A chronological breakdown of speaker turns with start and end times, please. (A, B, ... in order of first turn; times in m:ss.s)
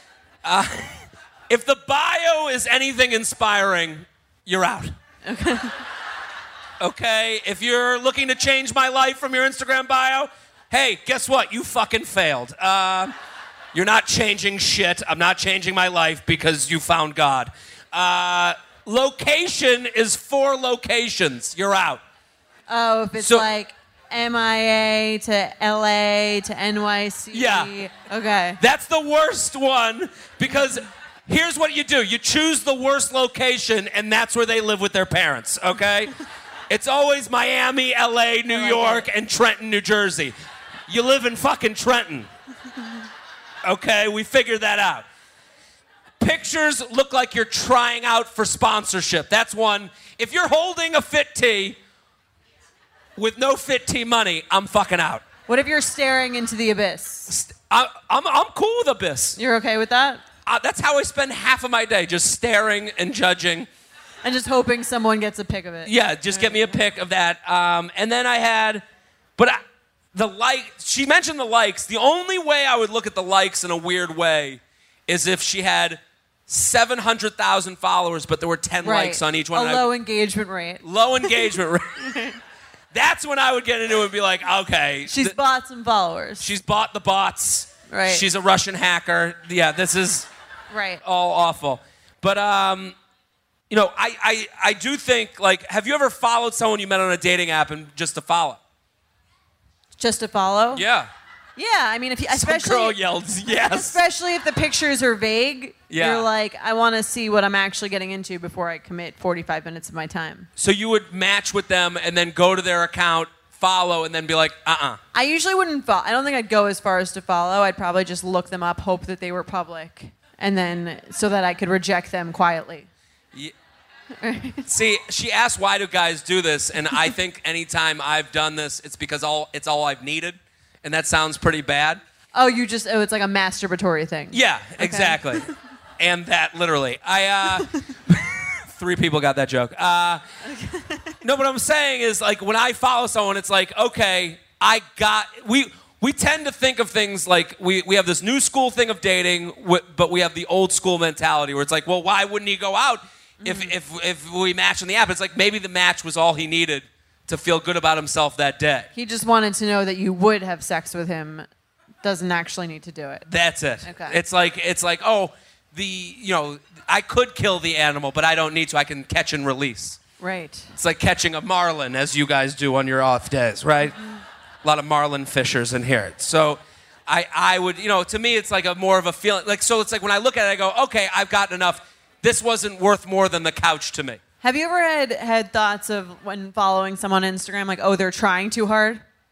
0:00.4-0:04.9 A
0:05.2-0:05.8 B
0:06.8-0:13.1 A
0:13.7-0:22.0 A
0:22.7-0:28.6 B
0:27.3-0:27.7 A
0:28.6-0:36.1 A
0:36.7-0:40.3 A
0:38.5-0:39.1 B
0:40.9-0:42.3 A
0:43.6-0:45.0 A
0:46.2-0:51.8 A
0:53.2-0:55.2 A
0:55.5-0:57.3 B
0:57.3-0:59.4 A
0:59.4-1:00.2 B
1:00.4-1:03.7 A
1:04.2-1:06.8 B
1:05.8-1:08.8 A
1:10.1-1:19.9 A
1:18.8-1:22.4 B
1:20.8-1:22.1 A
1:22.9-1:25.3 A
1:25.0-1:26.5 B
1:26.4-1:30.3 A
1:27.9-1:28.2 B
1:30.7-1:31.0 B
1:31.0-1:33.0 A
1:33.7-1:38.6 A
1:40.0-1:40.8 B
1:40.7-1:41.1 A
1:41.6-1:43.0 B
1:42.3-1:44.0 A
1:43.5-1:50.5 B
1:45.9-1:46.2 A
1:50.6-1:55.0 A
1:55.1-2:02.9 B
2:04.2-2:04.6 B
2:04.6-2:12.0 A
2:12.3-2:15.5 B
2:14.3-2:20.2 A
2:20.4-2:21.2 B
2:21.2-2:38.9 A
2:33.4-2:33.7 B
2:38.9-2:41.5 B
2:42.0-2:43.2 B
2:43.3-2:50.0 A
2:43.8-2:44.2 B
2:50.2-2:50.7 B
2:50.7-2:54.0 A
2:54.6-3:04.2 A
3:04.4-3:09.0 B